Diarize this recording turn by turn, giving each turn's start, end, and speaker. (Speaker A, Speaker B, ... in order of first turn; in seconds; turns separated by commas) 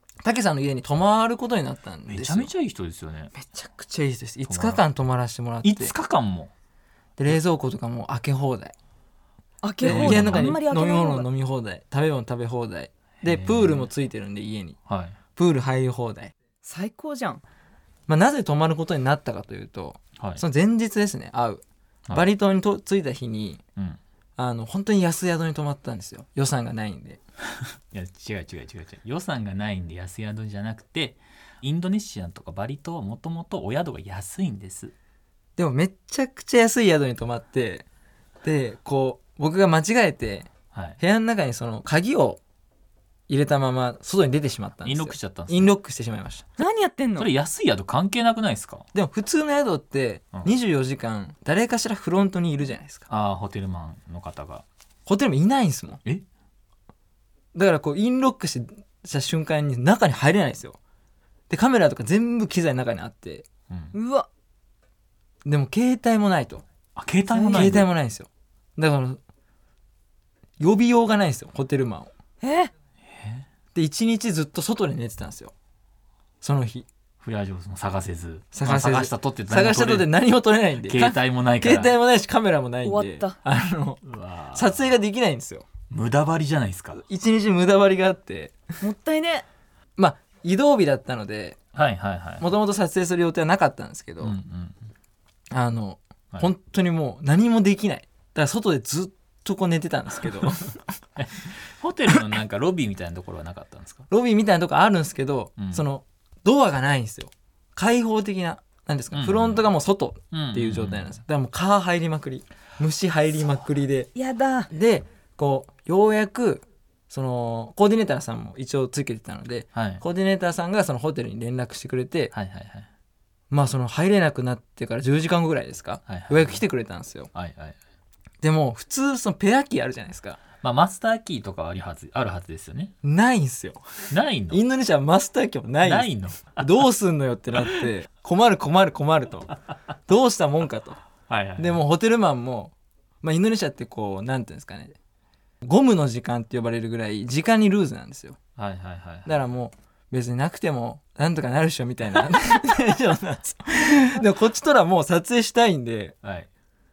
Speaker A: 0.2-2.5, Speaker B: 2.1-3.3, Speaker A: 3.3-5.9, Speaker B: 4.5-4.8, Speaker B: 5.6-6.5, Speaker A: 7.2-8.7, Speaker C: 9.6-11.2, Speaker A: 9.8-14.8, Speaker B: 9.8-10.6, Speaker B: 13.2-13.9, Speaker B: 14.9-15.2, Speaker A: 15.3-16.3, Speaker C: 16.6-17.4, Speaker A: 18.1-23.6, Speaker B: 20.2-20.4, Speaker A: 24.4-27.2, Speaker B: 27.9-34.9, Speaker A: 35.5-37.9, Speaker A: 38.4-42.4, Speaker B: 40.7-41.0, Speaker A: 43.3-46.4, Speaker B: 44.8-45.7, Speaker C: 46.6-47.3, Speaker B: 47.1-48.9, Speaker A: 48.9-53.0, Speaker B: 53.1-54.6, Speaker A: 55.0-56.0, Speaker A: 57.5-60.8, Speaker A: 61.5-63.5, Speaker B: 63.7-63.9, Speaker C: 63.9-64.3, Speaker A: 65.4-66.6, Speaker B: 67.0-67.9, Speaker C: 67.3-67.8, Speaker A: 67.5-69.2, Speaker A: 70.6-72.1, Speaker C: 72.4-72.7, Speaker B: 73.0-73.5, Speaker A: 73.7-75.5, Speaker A: 76.4-76.8, Speaker B: 77.2-80.2, Speaker A: 78.5-85.7, Speaker B: 80.8-81.9, Speaker C: 82.8-83.3, Speaker B: 84.0-85.0, Speaker B: 85.9-87.0, Speaker A: 87.0-88.6, Speaker C: 88.8-89.5, Speaker A: 90.0-91.6, Speaker B: 91.7-92.5, Speaker A: 92.4-94.4, Speaker B: 94.2-94.8, Speaker A: 95.5-100.8, Speaker B: 101.2-104.1, Speaker A: 104.1-114.1, Speaker B: 105.6-105.8, Speaker B: 109.1-109.7, Speaker B: 110.3-111.2, Speaker C: 114.1-114.7, Speaker A: 114.7-122.3, Speaker B: 119.7-120.0, Speaker B: 122.3-122.9, Speaker A: 123.5-127.3, Speaker B: 126.1-126.6, Speaker B: 127.3-127.8, Speaker A: 128.4-130.4, Speaker B: 130.6-132.9, Speaker A: 133.0-139.5, Speaker B: 134.1-134.6, Speaker B: 135.8-136.9, Speaker B: 137.5-137.9, Speaker A: 140.1-141.0, Speaker B: 141.3-141.8, Speaker A: 141.6-144.9, Speaker A: 145.6-148.4, Speaker B: 148.6-149.4, Speaker A: 149.2-156.2, Speaker B: 156.2-156.5